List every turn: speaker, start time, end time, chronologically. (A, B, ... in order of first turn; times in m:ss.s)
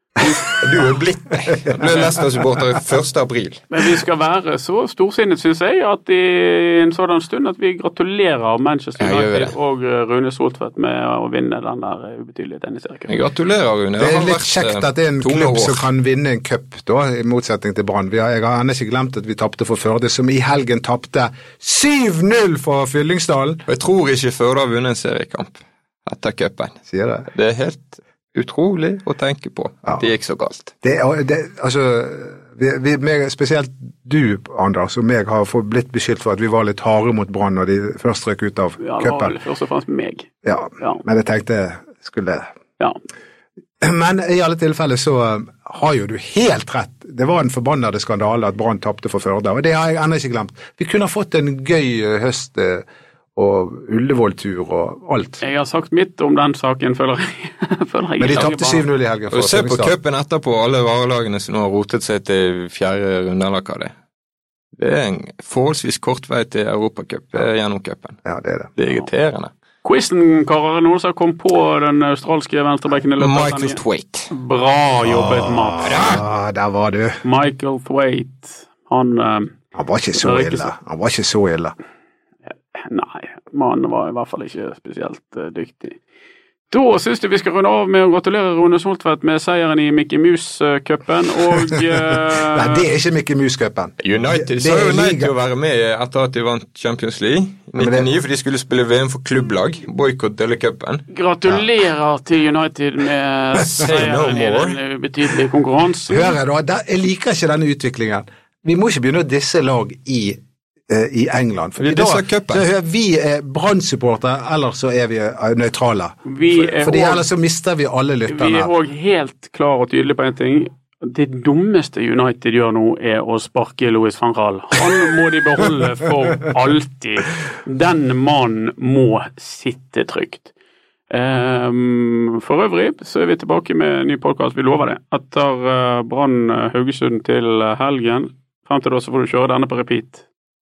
0:00.4-0:03.6 A
0:03.7-0:13.1 B
0:09.0-0:09.5 A
0:13.1-0:15.9 A
0:14.0-0:23.6 C
0:23.7-0:30.7 A
0:26.9-0:27.3 C
0:30.8-0:39.4 C
0:38.8-0:41.0 B
0:40.4-0:42.5 C
0:43.8-0:52.8 C
0:53.4-0:55.4 C
0:55.4-0:58.8 B
0:58.2-0:59.9 C
0:59.3-1:03.9 A
1:04.8-1:08.2 A
1:08.2-1:08.7 C
1:08.8-1:09.5 A
1:09.8-1:15.9 B
1:13.2-1:14.3 A
1:15.0-1:17.2 C
1:15.8-1:16.2 A
1:17.2-1:19.5 B
1:19.7-1:21.7 C
1:20.2-1:20.7 B
1:22.7-1:26.0 B
1:26.7-1:32.8 B
1:32.3-1:35.3 C
1:34.0-1:41.5 A
1:37.8-1:38.1 C
1:41.1-1:46.4 B
1:43.8-1:44.8 A
1:46.1-1:56.2 C
1:51.8-1:52.6 A
1:56.2-1:57.2 B
1:56.7-1:58.7 C
1:58.3-2:10.5 B
2:11.1-2:20.2 B